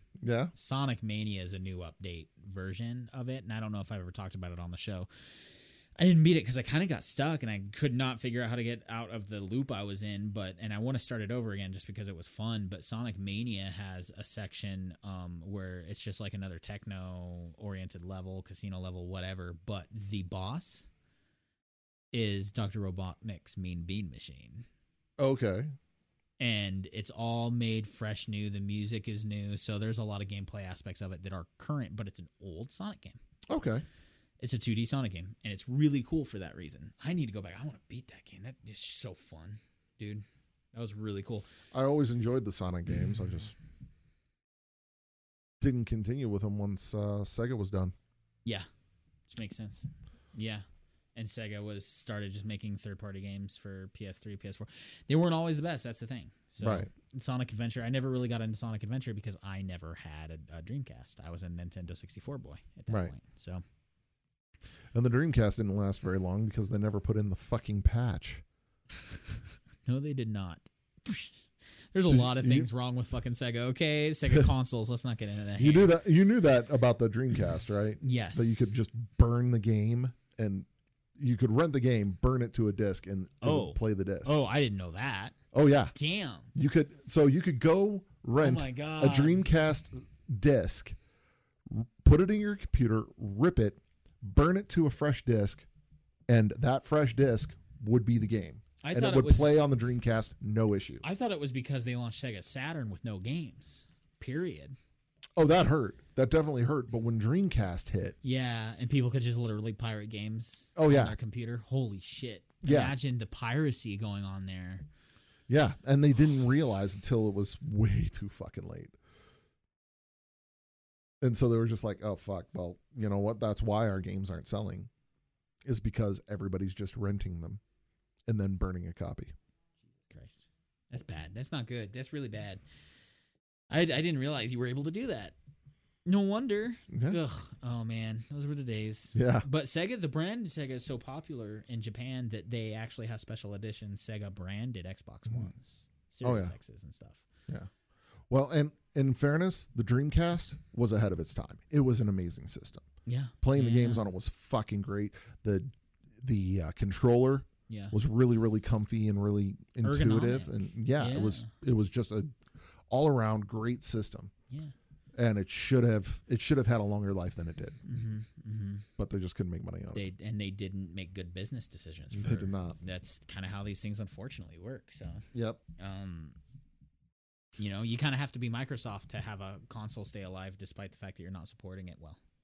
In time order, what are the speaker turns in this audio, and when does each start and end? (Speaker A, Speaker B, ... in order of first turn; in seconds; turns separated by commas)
Speaker A: 0.2-0.5, Speaker B: 0.6-5.1, Speaker B: 6.0-20.9, Speaker B: 22.1-24.7, Speaker A: 25.2-25.7, Speaker B: 26.4-33.2, Speaker A: 33.5-33.9, Speaker B: 34.4-41.5, Speaker A: 41.7-43.5, Speaker A: 45.6-48.0, Speaker B: 49.3-63.6, Speaker A: 56.6-56.9, Speaker A: 64.9-68.4, Speaker B: 69.8-71.4, Speaker B: 71.9-76.0, Speaker A: 72.1-72.7, Speaker A: 75.6-80.7, Speaker B: 78.0-78.7, Speaker A: 81.2-84.3, Speaker B: 83.4-85.4, Speaker A: 85.5-85.9, Speaker B: 86.0-86.5, Speaker A: 86.5-91.0, Speaker B: 88.4-89.4, Speaker A: 91.7-95.7, Speaker A: 96.3-101.0, Speaker B: 98.8-99.6, Speaker B: 101.0-104.8, Speaker A: 105.4-108.2, Speaker B: 108.2-114.9, Speaker A: 110.8-111.2, Speaker A: 112.6-113.0, Speaker A: 115.5-119.0, Speaker A: 121.2-124.9, Speaker A: 125.7-127.6, Speaker A: 128.3-129.3, Speaker B: 130.1-132.6, Speaker B: 133.7-135.4, Speaker B: 136.1-147.3, Speaker A: 136.9-137.2, Speaker A: 139.2-139.5, Speaker A: 146.2-146.5, Speaker A: 148.3-152.9, Speaker B: 153.1-154.0, Speaker A: 153.4-162.4, Speaker B: 157.7-158.0, Speaker B: 159.8-161.5, Speaker A: 162.9-164.3, Speaker A: 165.2-167.8, Speaker B: 167.9-168.9, Speaker A: 169.0-170.1, Speaker B: 169.9-175.2, Speaker A: 172.1-172.8, Speaker A: 175.3-175.6, Speaker B: 175.8-176.4, Speaker B: 177.6-182.2